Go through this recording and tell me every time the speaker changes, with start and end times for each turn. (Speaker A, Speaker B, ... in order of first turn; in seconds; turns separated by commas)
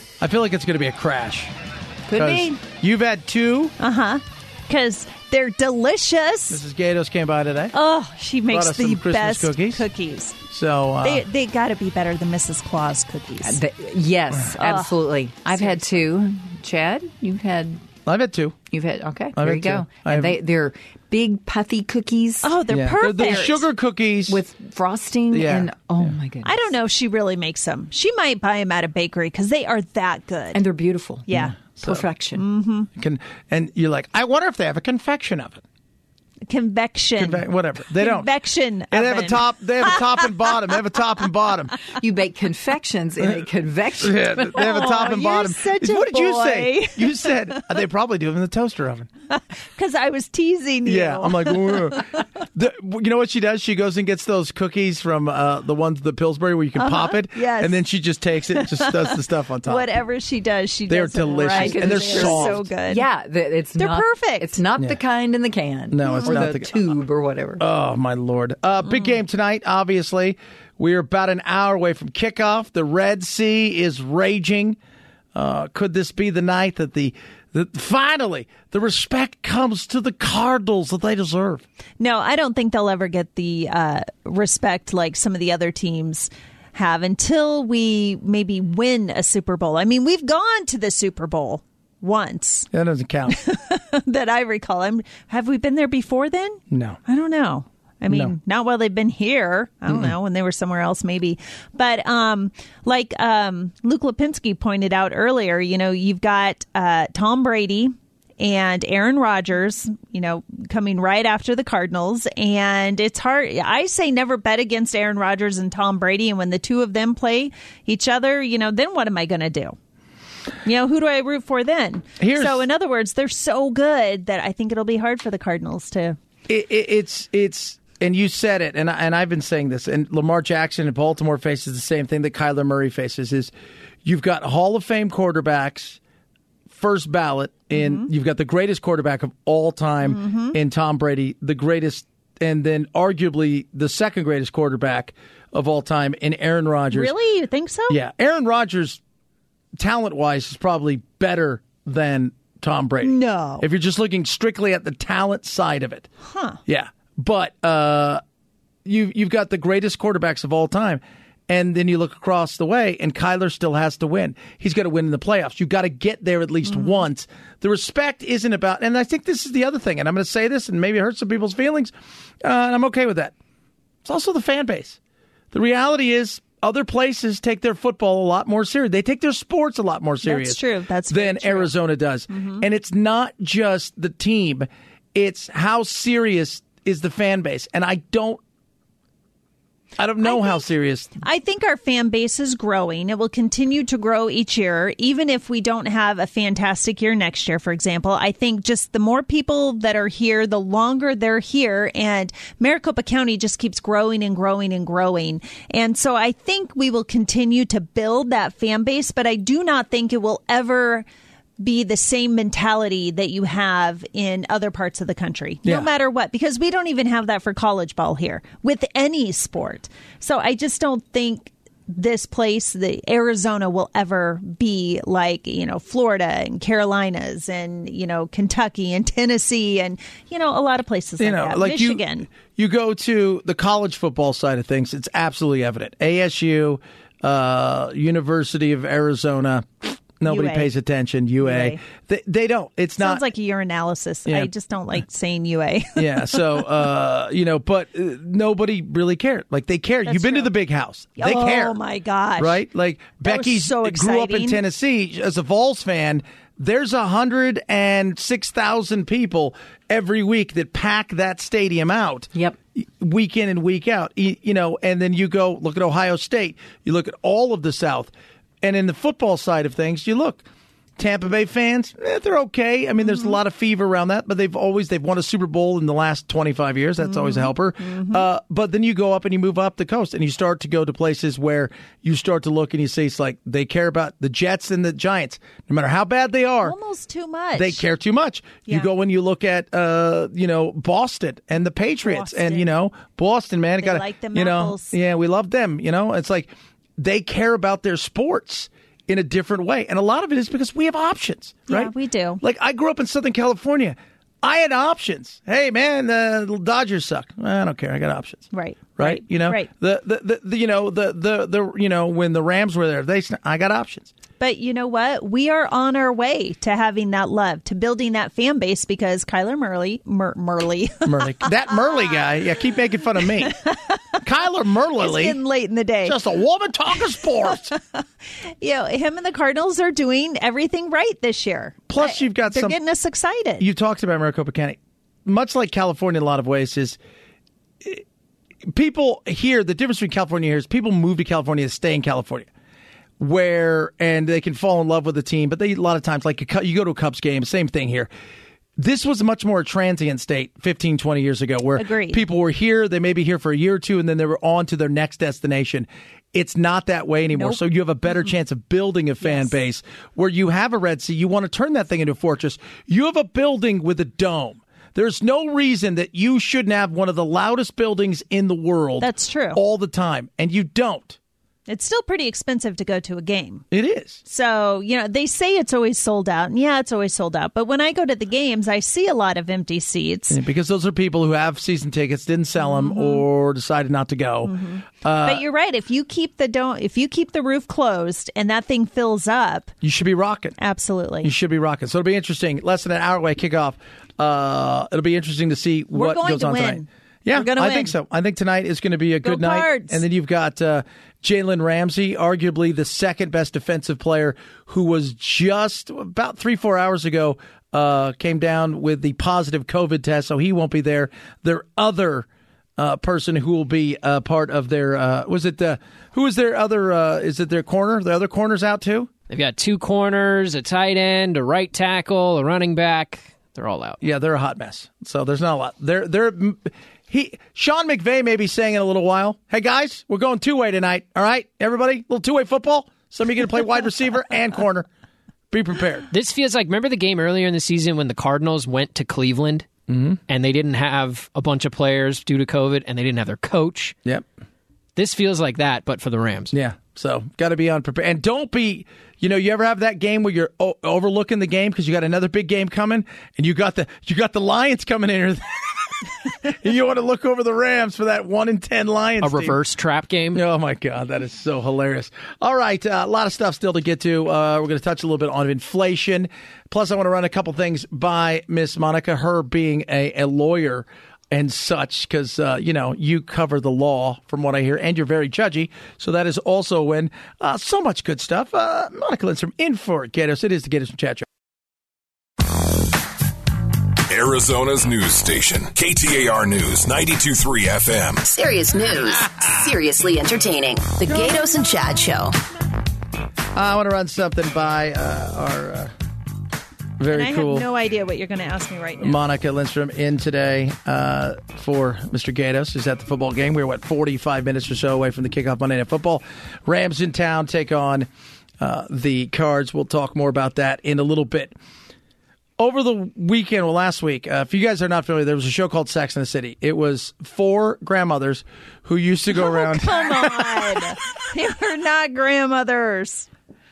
Speaker A: 0.2-1.5, Speaker B: 2.1-2.6, Speaker A: 2.1-3.7, Speaker C: 3.8-6.6, Speaker A: 6.5-7.7, Speaker C: 7.7-10.4, Speaker A: 8.5-9.8, Speaker A: 10.5-11.2, Speaker C: 11.0-13.6, Speaker B: 13.4-17.8, Speaker C: 14.6-14.9, Speaker A: 18.1-18.6, Speaker B: 18.7-22.6, Speaker A: 19.4-20.4, Speaker C: 22.4-23.6, Speaker A: 22.7-24.4, Speaker B: 24.3-26.7, Speaker A: 25.3-26.1, Speaker C: 26.4-30.6, Speaker B: 30.5-32.4, Speaker C: 31.3-31.6, Speaker A: 31.3-32.1, Speaker C: 32.3-32.9, Speaker A: 33.0-35.6, Speaker C: 36.5-40.5, Speaker A: 37.2-38.3, Speaker A: 38.9-41.8, Speaker B: 42.0-44.8, Speaker A: 44.0-49.1, Speaker C: 44.5-47.6, Speaker C: 49.3-52.2, Speaker A: 50.8-59.9, Speaker C: 56.8-57.8, Speaker C: 58.5-63.0, Speaker A: 60.9-62.6, Speaker B: 61.5-67.6, Speaker C: 63.8-64.6, Speaker A: 65.9-67.0, Speaker C: 66.0-66.5, Speaker A: 67.6-74.8, Speaker A: 75.3-81.6, Speaker C: 82.0-92.7, Speaker A: 92.7-93.4, Speaker C: 93.3-119.8, Speaker A: 96.7-97.0, Speaker A: 98.1-98.3, Speaker A: 99.9-100.1, Speaker C: 120.6-126.2, Speaker A: 122.2-122.6, Speaker A: 126.5-133.5, Speaker A: 134.0-136.0, Speaker A: 136.7-147.1, Speaker C: 137.7-138.1, Speaker C: 140.0-140.6, Speaker C: 146.9-148.0, Speaker A: 147.9-149.0, Speaker A: 149.8-156.1, Speaker C: 153.0-153.6, Speaker C: 156.3-156.6, Speaker A: 156.7-158.2, Speaker A: 158.8-171.9, Speaker C: 166.7-167.0, Speaker A: 172.4-173.3, Speaker A: 174.0-175.0, Speaker A: 175.5-180.6, Speaker C: 180.2-181.7, Speaker A: 181.1-188.4, Speaker C: 182.3-182.6, Speaker A: 190.0-191.1, Speaker C: 190.2-190.6, Speaker C: 191.2-211.1, Speaker C: 211.6-232.3, Speaker A: 215.6-215.9, Speaker A: 231.2-243.2, Speaker C: 240.2-240.7, Speaker C: 241.4-241.8, Speaker C: 243.0-246.4, Speaker A: 244.2-244.5, Speaker A: 245.9-251.8, Speaker C: 250.0-250.5, Speaker C: 251.2-252.6, Speaker A: 252.4-268.1, Speaker C: 253.2-254.6, Speaker A: 268.6-270.4, Speaker A: 271.0-286.8, Speaker C: 277.0-278.2, Speaker C: 286.6-287.8, Speaker A: 287.6-314.1, Speaker C: 292.0-292.6, Speaker C: 293.8-294.9, Speaker C: 301.7-302.4, Speaker C: 308.5-309.7, Speaker C: 314.4-321.4, Speaker A: 321.0-323.6, Speaker C: 323.4-324.2, Speaker A: 324.2-325.4, Speaker C: 325.0-326.2, Speaker A: 326.0-327.7, Speaker C: 327.6-328.0, Speaker C: 328.6-333.6, Speaker A: 331.9-332.8, Speaker A: 333.6-337.0, Speaker A: 338.7-342.5, Speaker A: 343.2-348.1, Speaker A: 348.8-371.2, Speaker C: 351.8-352.2, Speaker C: 357.3-357.6, Speaker C: 359.2-359.5, Speaker C: 369.0-369.6, Speaker C: 371.7-373.6, Speaker A: 373.7-374.2, Speaker C: 374.2-380.4, Speaker A: 380.3-385.4, Speaker C: 382.6-383.2, Speaker C: 384.4-389.7, Speaker A: 389.8-390.6, Speaker C: 390.6-391.3, Speaker A: 391.2-412.3, Speaker C: 395.9-397.9, Speaker C: 399.2-400.0, Speaker A: 412.8-419.1, Speaker D: 419.3-424.0, Speaker A: 424.0-434.9, Speaker A: 435.5-436.1, Speaker D: 436.1-439.7, Speaker A: 439.9-440.2, Speaker D: 440.3-443.9, Speaker D: 444.9-446.5, Speaker A: 446.5-459.6, Speaker D: 459.2-460.4, Speaker A: 460.3-481.2, Speaker E: 484.1-488.3, Speaker F: 488.2-492.4, Speaker A: 493.5-495.9, Speaker A: 497.0-497.7, Speaker C: 497.1-499.2, Speaker A: 499.0-508.1, Speaker A: 508.6-511.5, Speaker A: 512.6-520.8, Speaker C: 519.4-523.3